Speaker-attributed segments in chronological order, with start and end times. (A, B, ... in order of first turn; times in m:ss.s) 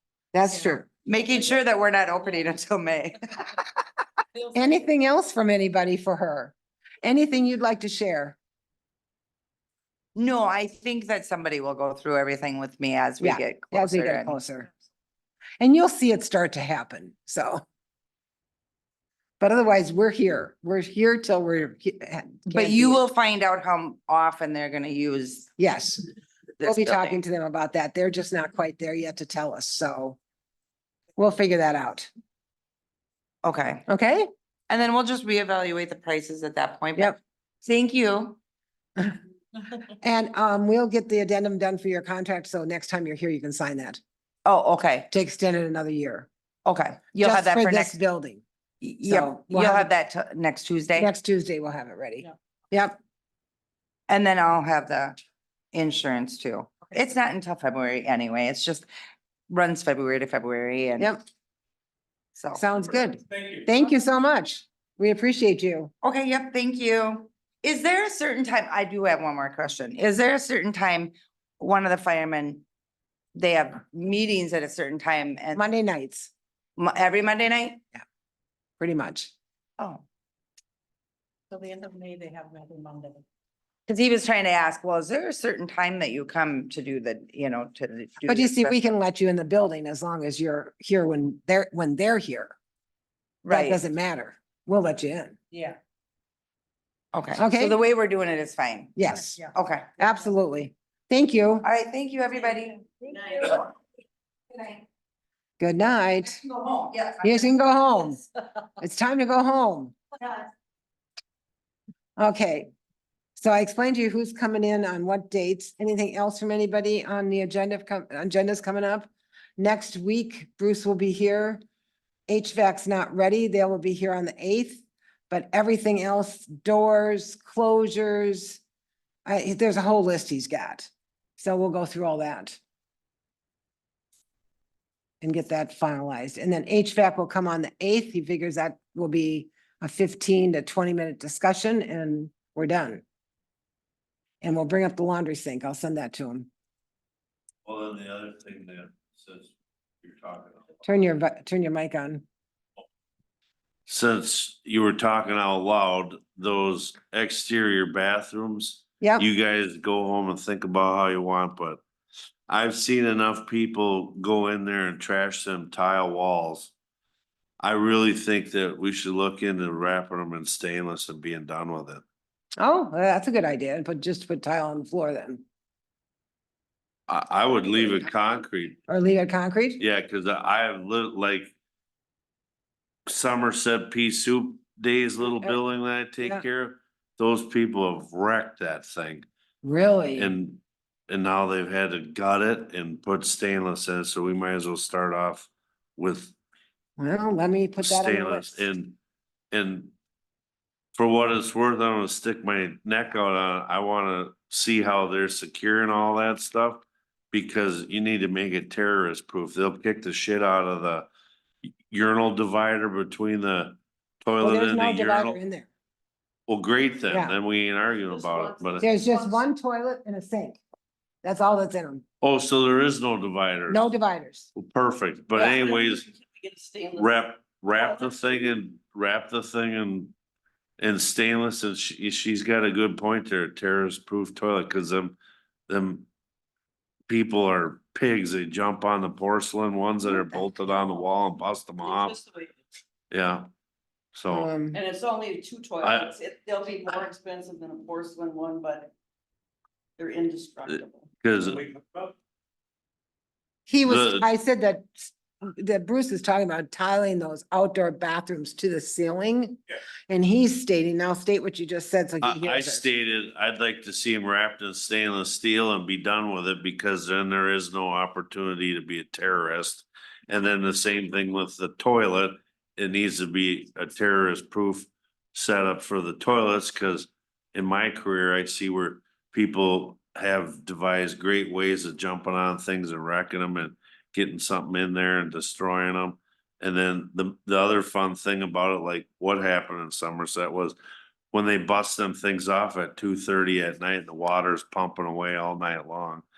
0:00.3-0:00.9 A
0:00.5-0:00.8 B
0:01.1-0:03.4 C
0:04.5-0:08.4 A
0:10.2-0:14.4 C
0:13.2-0:14.7 A
0:15.6-0:17.6 A
0:19.4-0:23.0 A
0:22.5-0:25.5 C
0:25.6-0:26.0 A
0:26.6-0:27.2 C
0:26.6-0:30.2 A
0:31.2-0:32.1 A
0:33.4-0:33.8 C
0:33.9-0:34.3 A
0:34.7-0:38.4 C
0:40.0-0:44.0 A
0:44.5-0:45.1 C
0:45.1-0:46.3 A
0:46.7-0:48.0 C
0:47.2-0:48.4 A
0:48.8-0:51.1 C
0:49.0-0:49.9 A
0:51.0-0:53.0 A
0:54.1-0:55.2 C
0:55.7-0:58.9 C
0:59.5-1:01.1 C
1:02.4-1:02.6 C
1:02.6-1:05.9 A
1:06.0-1:12.6 C
1:13.4-1:15.6 C
1:15.6-1:16.3 A
1:16.8-1:17.8 C
1:18.8-1:19.3 A
1:19.8-1:20.0 C
1:21.5-1:23.2 B
1:23.9-1:28.8 C
1:28.3-1:32.5 A
1:33.4-1:33.8 C
1:33.5-1:35.4 A
1:35.5-1:35.8 B
1:37.1-1:39.9 C
1:37.4-1:37.8 A
1:39.0-1:41.7 A
1:41.6-1:43.7 C
1:44.5-1:44.8 C
1:45.6-1:46.4 A
1:46.4-1:47.6 C
1:47.2-1:48.2 A
1:48.8-1:50.0 A
1:52.2-1:52.7 A
1:53.4-2:01.6 A
2:02.3-2:08.6 A
2:09.2-2:12.6 A
2:15.2-2:23.0 A
2:24.4-2:26.5 A
2:27.6-2:30.8 D
2:30.8-2:32.2 A
2:33.9-2:41.8 D
2:39.0-2:39.3 A
2:42.5-2:46.7 D
2:47.6-2:52.0 D
2:52.6-2:55.4 A
2:57.1-2:58.8 D
2:58.9-2:59.8 A
2:59.8-3:01.5 D
3:03.1-3:09.2 D
3:09.6-3:10.4 A
3:10.2-3:16.4 D
3:17.0-3:18.7 A
3:17.8-3:19.0 D
3:19.5-3:19.9 D
3:21.0-3:31.1 D
3:31.9-3:35.4 D
3:34.4-3:35.7 A
3:36.5-3:38.9 D
3:37.1-3:37.4 A
3:38.1-3:39.4 B
3:38.8-3:40.6 A
3:41.2-3:42.0 A
3:42.2-3:43.9 D
3:43.7-3:44.5 A
3:44.6-3:46.0 D
3:45.4-3:47.1 B
3:47.0-3:50.1 D
3:47.8-3:48.2 B
3:50.8-3:55.2 D
3:55.7-3:56.1 D
3:57.1-4:02.2 D
4:01.8-4:02.5 B
4:03.1-4:03.5 D
4:04.2-4:04.5 D
4:04.3-4:04.8 A
4:04.7-4:08.9 B
4:05.8-4:06.1 D
4:10.0-4:11.1 B
4:10.7-4:11.7 D
4:13.7-4:22.9 A
4:13.8-4:14.3 D
4:22.2-4:50.8 D
4:51.3-4:56.2 D